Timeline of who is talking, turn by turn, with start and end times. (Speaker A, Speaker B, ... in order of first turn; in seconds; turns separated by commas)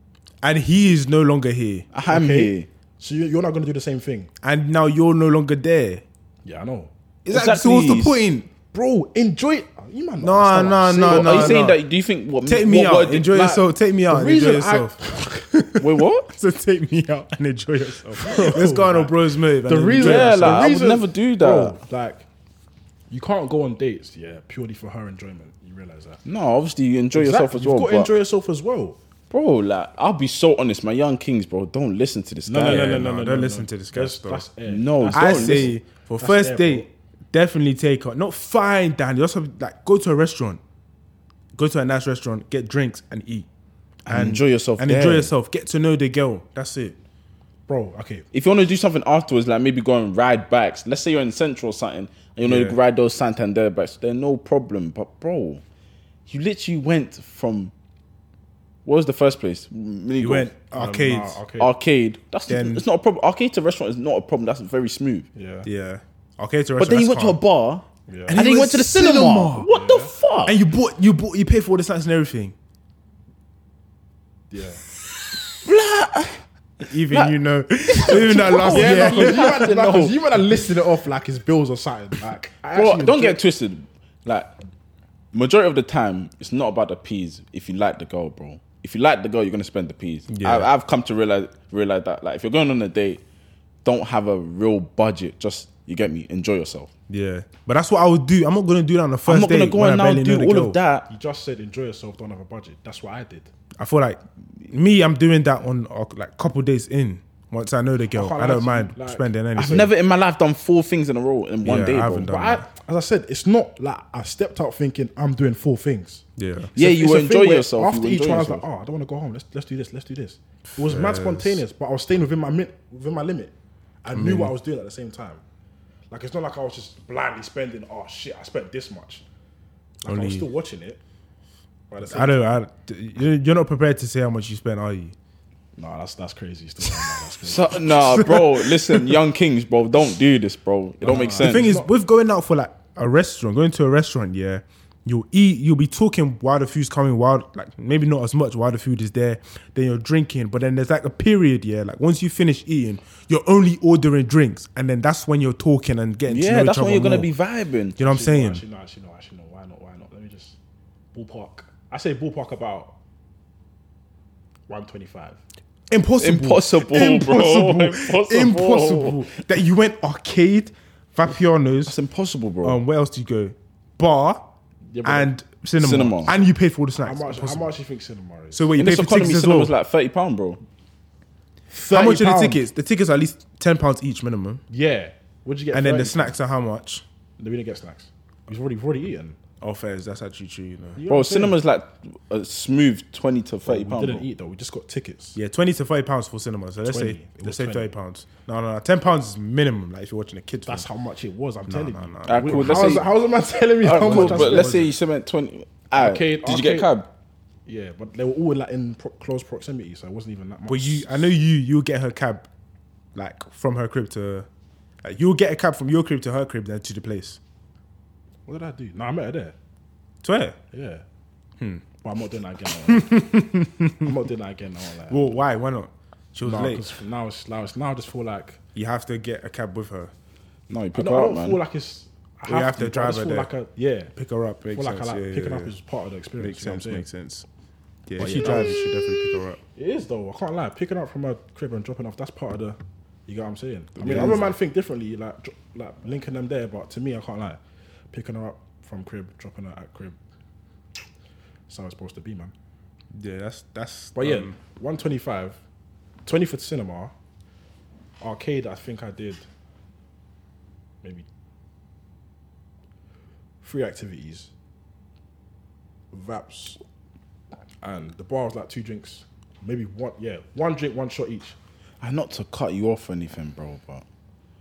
Speaker A: 0.4-1.9, Speaker B: 1.9-2.7, Speaker C: 2.1-4.3, Speaker A: 4.4-6.0, Speaker C: 6.4-6.9, Speaker A: 7.2-8.5, Speaker B: 7.3-8.2, Speaker C: 8.7-11.6, Speaker A: 10.2-11.8, Speaker B: 11.1-13.6, Speaker A: 12.4-20.7, Speaker C: 14.1-15.4, Speaker B: 15.8-16.3, Speaker C: 18.1-22.2, Speaker B: 20.0-21.8, Speaker C: 23.1-26.2, Speaker B: 26.2-28.1, Speaker C: 27.1-29.0, Speaker B: 29.3-33.0, Speaker C: 32.5-36.9, Speaker A: 32.6-34.4, Speaker B: 34.7-35.7, Speaker A: 35.1-40.6, Speaker A: 41.5-43.5, Speaker B: 44.0-45.3, Speaker A: 44.1-47.0, Speaker C: 47.7-48.2, Speaker B: 48.3-55.6, Speaker A: 52.4-52.8, Speaker B: 56.3-57.7, Speaker B: 58.8-60.5, Speaker A: 60.2-61.4, Speaker C: 60.7-61.7, Speaker B: 61.6-65.3, Speaker A: 62.5-62.8, Speaker C: 65.3-65.7, Speaker A: 65.6-67.4, Speaker B: 66.8-70.6, Speaker C: 68.1-68.4, Speaker A: 68.3-69.7, Speaker C: 69.7-70.1, Speaker A: 70.5-72.5, Speaker C: 74.5-74.8, Speaker B: 75.6-76.4, Speaker A: 76.8-79.7, Speaker B: 77.1-77.3, Speaker B: 77.9-80.2, Speaker C: 78.6-83.4, Speaker B: 82.7-84.5, Speaker B: 85.3-93.2, Speaker A: 90.3-90.7, Speaker B: 93.8-96.9, Speaker A: 97.1-100.8, Speaker B: 99.2-101.1, Speaker C: 101.1-103.5, Speaker A: 103.8-109.9, Speaker C: 108.1-109.9, Speaker B: 109.6-112.3, Speaker A: 111.6-112.7, Speaker C: 112.3-123.5, Speaker A: 116.4-116.7, Speaker B: 116.7-118.6, Speaker A: 120.8-121.6, Speaker C: 124.0-125.4, Speaker A: 124.1-124.5, Speaker C: 126.1-129.2, Speaker C: 130.0-131.0, Speaker A: 130.1-130.5, Speaker C: 131.9-132.4, Speaker A: 132.0-135.1, Speaker C: 135.8-137.8, Speaker B: 137.4-141.7, Speaker A: 137.8-139.2, Speaker C: 141.0-141.9, Speaker A: 141.4-157.3, Speaker B: 156.3-157.9, Speaker A: 158.0-158.6, Speaker C: 158.0-160.6, Speaker C: 161.1-163.0, Speaker C: 164.7-165.4, Speaker A: 165.9-171.9, Speaker B: 166.2-169.3, Speaker B: 171.9-172.8, Speaker A: 172.6-174.4, Speaker C: 174.9-175.3, Speaker A: 175.0-177.7, Speaker B: 175.8-176.3, Speaker C: 176.9-178.7, Speaker A: 178.5-179.7, Speaker B: 178.8-180.6, Speaker A: 181.7-184.6, Speaker C: 181.9-182.6, Speaker C: 184.7-186.3, Speaker A: 185.7-187.0, Speaker C: 187.4-189.4, Speaker A: 189.6-191.0, Speaker C: 191.0-191.6, Speaker B: 191.1-194.2, Speaker C: 193.7-195.4, Speaker A: 195.3-200.9, Speaker C: 196.8-197.9, Speaker C: 200.7-204.8, Speaker A: 201.7-203.1, Speaker B: 202.2-203.1, Speaker B: 203.8-207.1, Speaker A: 203.9-204.9, Speaker C: 205.9-206.9, Speaker C: 207.7-211.3, Speaker A: 210.7-212.5, Speaker A: 213.1-214.5, Speaker A: 215.0-217.4, Speaker C: 218.4-219.5, Speaker A: 220.2-220.6, Speaker C: 220.7-221.0, Speaker A: 221.6-221.8, Speaker C: 222.0-223.3, Speaker A: 222.9-224.1, Speaker C: 224.0-225.4, Speaker A: 225.1-226.8, Speaker C: 226.4-228.6, Speaker A: 228.7-230.1, Speaker B: 230.7-231.6, Speaker C: 230.9-234.1, Speaker A: 232.4-233.5, Speaker A: 234.2-235.7, Speaker C: 234.7-237.1, Speaker A: 236.4-237.4, Speaker A: 238.1-239.6, Speaker C: 238.2-238.8, Speaker C: 239.8-247.6, Speaker A: 244.0-244.5, Speaker C: 248.1-250.2, Speaker C: 251.7-252.5, Speaker A: 253.1-254.6, Speaker C: 254.1-255.6, Speaker C: 256.2-257.1, Speaker C: 258.2-259.4, Speaker C: 263.6-264.5, Speaker C: 266.1-266.8, Speaker C: 267.8-271.6, Speaker B: 272.0-274.0